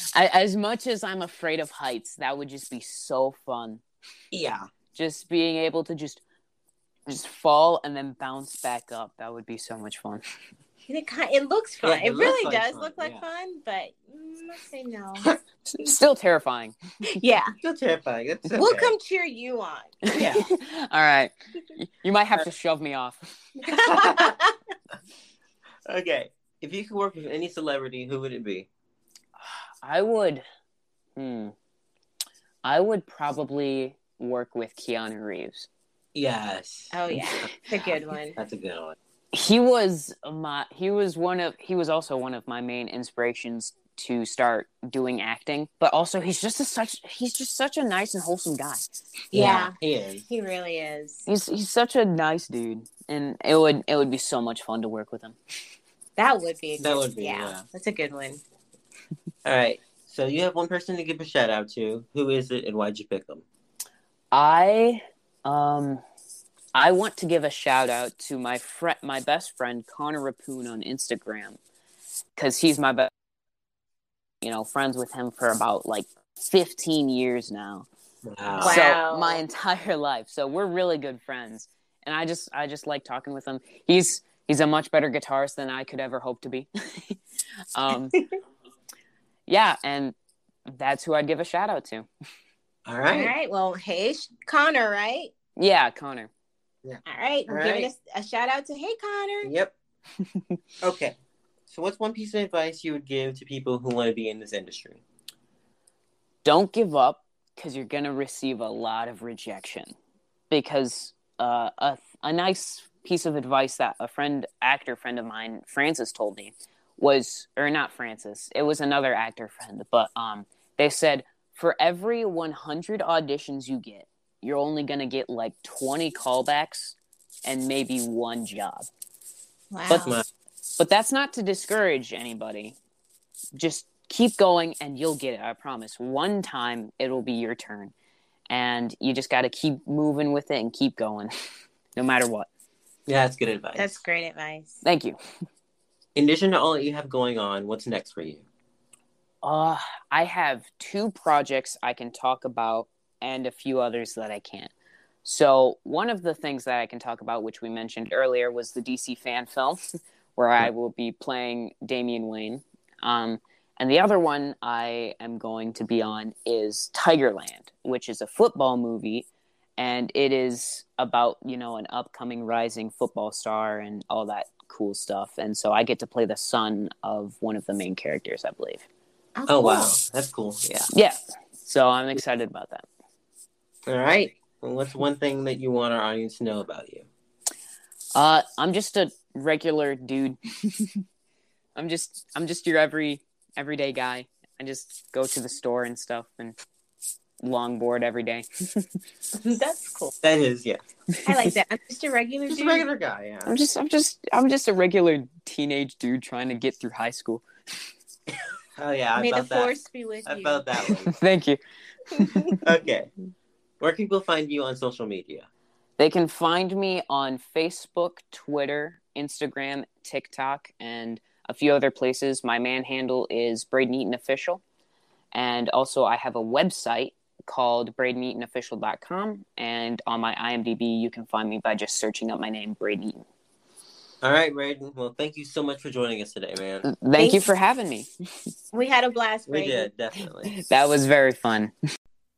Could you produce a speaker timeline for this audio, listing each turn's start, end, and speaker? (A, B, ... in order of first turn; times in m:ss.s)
0:00.1-0:03.8 A
0:04.3-0:04.7 B
0:04.9-0:06.2 A
0:07.1-0:10.2 A
0:10.9-0:15.3 C
0:11.8-0:13.2 B
0:15.7-0:16.8 A
0:17.1-0:17.6 C
0:17.6-0:18.9 B
0:18.5-0:20.1 C
0:20.0-0:23.3 A
0:20.1-0:20.5 B
0:23.6-0:24.3 B
0:23.7-0:24.5 C
0:25.9-0:28.7 B
0:29.8-0:30.4 A
0:31.2-0:31.5 A
0:32.6-0:35.7 A
0:36.1-0:37.5 B
0:36.9-0:38.4 C
0:38.4-0:39.0 B
0:39.3-0:48.8 A
0:49.3-0:49.7 C
0:49.3-0:50.2 B
0:50.3-0:51.2 C
0:51.3-0:55.4 A
0:56.2-0:58.4 C
0:56.8-0:57.6 B
0:59.4-1:03.4 B
1:04.3-1:06.0 A
1:06.7-1:11.6 A
1:12.4-1:13.1 A
1:14.4-1:17.9 A
1:18.2-1:18.8 B
1:18.6-1:19.4 C
1:18.6-1:27.2 A
1:27.7-1:28.2 A
1:29.5-1:30.1 A
1:30.7-1:32.1 A
1:32.8-1:33.3 B
1:33.1-1:35.3 C
1:35.6-1:36.3 A
1:36.8-1:37.9 B
1:37.0-1:39.5 C
1:39.4-1:39.7 B
1:40.3-1:40.6 A
1:40.8-1:41.2 B
1:41.7-1:45.0 B
1:46.4-1:49.9 A
1:50.5-2:08.9 A
2:09.7-2:10.2 C
2:09.9-2:10.2 B
2:10.8-2:12.8 A
2:13.5-2:17.9 A
2:18.5-2:21.3 A
2:22.0-2:22.5 A
2:23.1-2:24.0 B
2:23.8-2:24.8 C
2:24.8-2:25.2 A
2:26.1-2:28.4 B
2:29.4-2:34.7 A
2:35.2-2:39.8 A
2:40.4-2:49.3 A
2:49.8-2:58.8 A
2:59.3-2:59.9 C
2:59.5-3:00.9 B
3:00.9-3:02.8 A
3:03.9-3:07.1 B
3:08.1-3:11.0 A
3:11.8-3:16.5 A
3:17.4-3:18.9 A
3:19.3-3:20.1 C
3:20.2-3:20.8 B
3:21.2-3:21.5 A
3:21.2-3:22.8 C
3:22.5-3:23.5 B
3:23.4-3:27.4 A
3:28.8-3:29.7 B
3:29.2-3:30.6 C
3:30.2-3:31.2 B
3:31.0-3:32.6 A
3:32.2-3:32.5 C
3:32.6-3:33.1 B
3:33.8-3:35.4 B
3:36.0-3:44.6 A
3:45.3-3:53.2 A
3:54.2-3:56.9 B
3:56.8-3:58.1 A
3:57.2-3:57.4 C
3:58.7-3:59.9 C
3:59.5-4:00.5 B
4:00.4-4:01.7 A